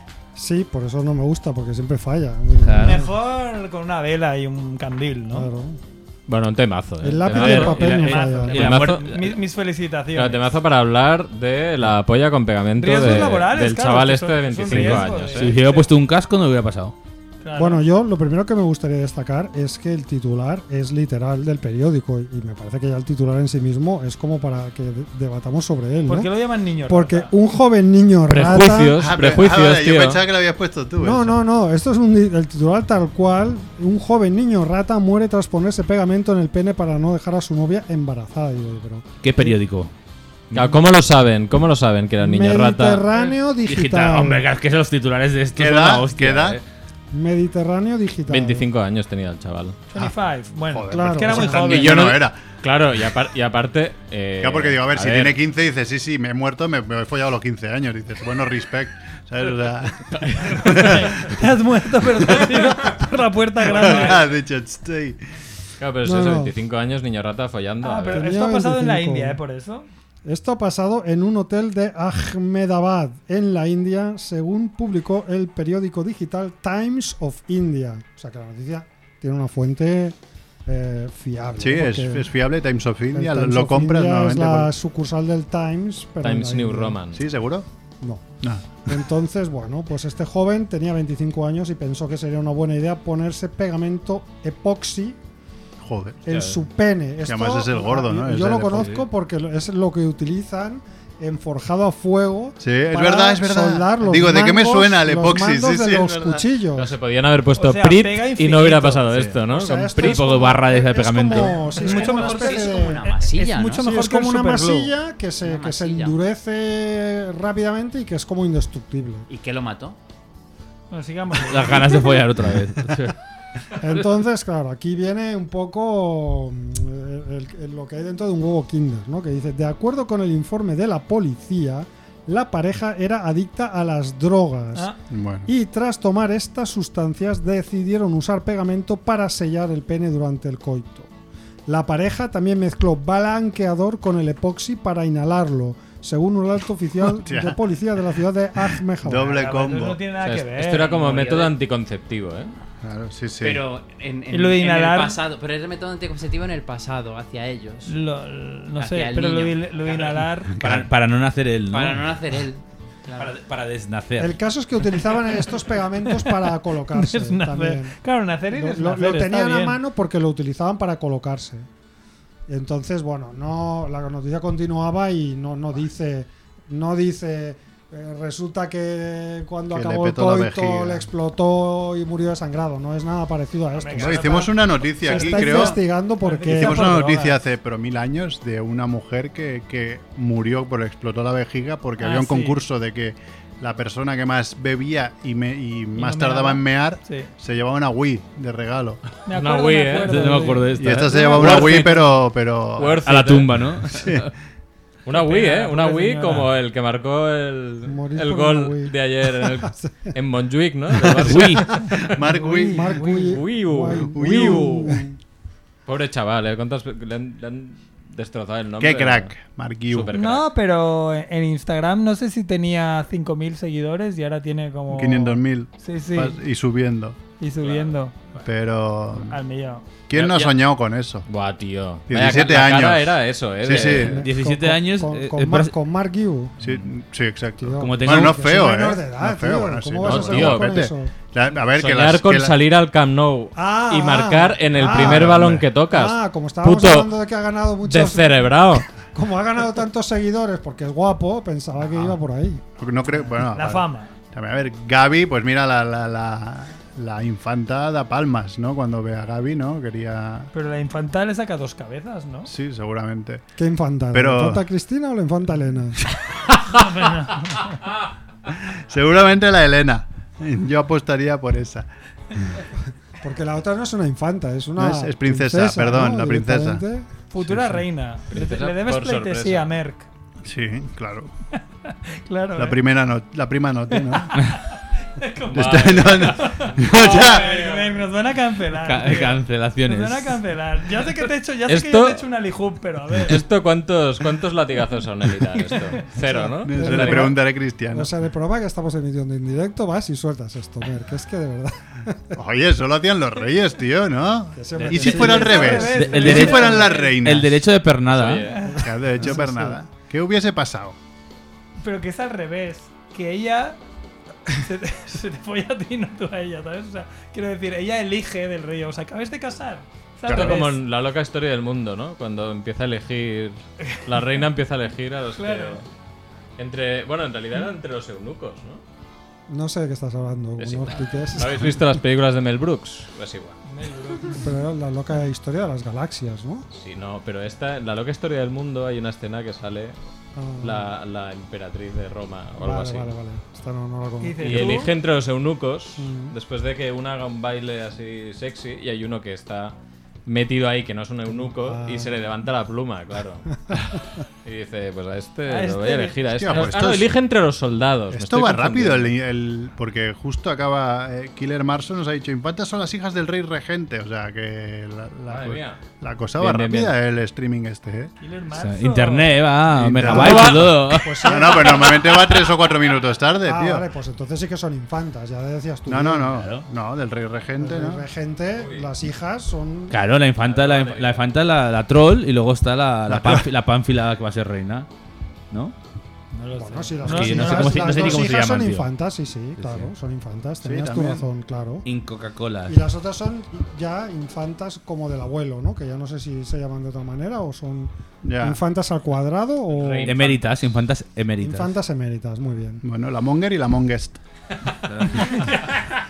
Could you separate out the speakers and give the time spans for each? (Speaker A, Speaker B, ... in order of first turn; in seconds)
Speaker A: 0.4-3.1, 5.3-5.8, 7.0-8.7, 17.6-29.0, 31.0-39.6, 42.2-44.4, 47.1-48.6, 50.9-51.9, 66.0-66.5, 68.1-69.4, 70.2-82.3, 83.1-87.0, 88.8-95.2, 96.3-107.0, 109.5-119.3, 123.8-134.9, 135.5-141.1, 141.7-149.4, 164.2-168.0, 168.5-171.7, 172.5-187.0, 201.1-201.7, 207.8-210.1, 212.2-215.1, 233.7-236.6, 237.6-241.1, 243.6-252.6, 263.6-266.0, 273.2-277.1, 296.2-302.4, 304.6-306.9, 308.7-309.8, 329.5-332.0, 334.4-336.6, 340.4-340.9, 342.6-344.9, 346.0-346.3, 351.3-352.1, 353.7-354.0, 370.0-372.2, 373.4-376.5, 377.6-380.0, 386.5-391.9, 392.7-400.2, 401.4-402.8
Speaker B: 2.6-3.0, 7.3-9.3, 14.7-16.9, 39.2-39.9, 43.6-46.6, 110.0-111.7, 121.5-123.2, 160.6-162.1, 163.2-164.4, 200.0-201.7, 203.1-204.2, 211.2-211.7, 234.1-235.7, 237.8-238.5, 288.7-290.4, 305.9-308.5, 368.5-371.2, 376.3-376.6, 379.9-384.9, 387.1-388.9, 389.6-389.9, 391.9-392.8, 400.0-401.7, 404.9-405.2
Speaker C: 2.8-5.5, 7.8-10.4, 12.8-15.9, 17.4-17.9, 26.1-27.3, 49.9-52.0, 60.6-64.2, 67.8-69.9, 107.6-109.0, 111.7-114.9, 120.9-122.2, 149.2-151.1, 154.3-155.2, 157.9-160.5, 166.1-169.8, 183.8-187.4, 192.0-192.6, 196.0-197.3, 199.3-200.7, 205.1-206.5, 213.0-213.3, 220.1-226.4, 227.4-228.1, 229.2-229.8, 253.5-254.1, 260.5-262.5, 266.7-267.8, 277.3-280.1, 281.6-282.8, 283.9-293.4, 295.7-296.0, 304.8-307.1, 308.4-308.8, 311.8-313.8, 314.5-320.8, 325.3-325.8, 333.7-334.5, 344.2-344.9, 355.5-356.6, 368.2-369.4, 386.3-388.1
Speaker D: 6.3-8.0, 8.5-9.1, 10.1-15.6, 28.3-30.2, 40.5-43.1, 48.3-49.8, 51.7-55.4, 60.4-60.9, 65.8-68.3, 86.2-87.2, 106.8-110.2, 150.2-152.6, 199.3-200.3, 201.3-202.2, 202.8-203.5, 205.1-211.8, 213.1-215.0, 215.9-219.3, 219.9-220.5, 227.6-227.9, 230.1-230.6, 231.3-234.2, 240.0-240.8, 241.7-247.1, 247.8-248.9, 278.3-279.7, 285.5-288.0, 291.7-292.2, 293.2-297.3, 308.1-308.7, 320.3-325.9, 326.6-328.8, 330.6-333.6, 336.7-339.9, 340.6-343.1, 344.4-349.8, 350.3-353.5, 354.4-359.1, 365.3-365.8, 366.4-366.9, 370.1-370.8, 378.6-378.9, 380.4-381.3, 399.7-400.4
Speaker E: 29.0-31.4, 45.6-46.6, 50.7-52.4, 54.4-61.4, 62.3-62.7, 63.6-65.2, 81.6-84.7, 87.1-87.7, 88.4-88.7, 95.8-96.3, 97.2-99.0, 102.6-106.4, 135.1-135.5, 147.1-147.6, 149.0-150.0, 152.8-153.6, 160.6-160.9, 179.7-181.0, 184.0-185.8, 186.4-199.0, 200.8-203.2, 203.8-204.3, 211.0-213.1, 214.1-215.0, 218.8-220.1, 224.9-227.2, 228.4-229.4, 230.1-231.3, 232.1-234.2, 236.6-242.6, 244.8-245.7, 252.8-260.5, 262.5-263.4, 264.1-264.6, 268.5-272.5, 274.8-276.8, 280.4-281.3, 282.6-284.5, 285.5-287.5, 296.6-298.1, 302.4-307.6, 308.8-311.0, 320.3-320.6, 356.3-357.1, 358.1-368.1, 369.7-373.9, 375.9-378.0, 383.1-383.5, 390.6-391.3, 398.2-398.6, 402.8-404.2
Speaker F: 111.7-113.9, 115.4-116.2, 119.3-120.0, 151.0-151.5, 153.4-157.9, 158.8-160.2, 161.7-163.3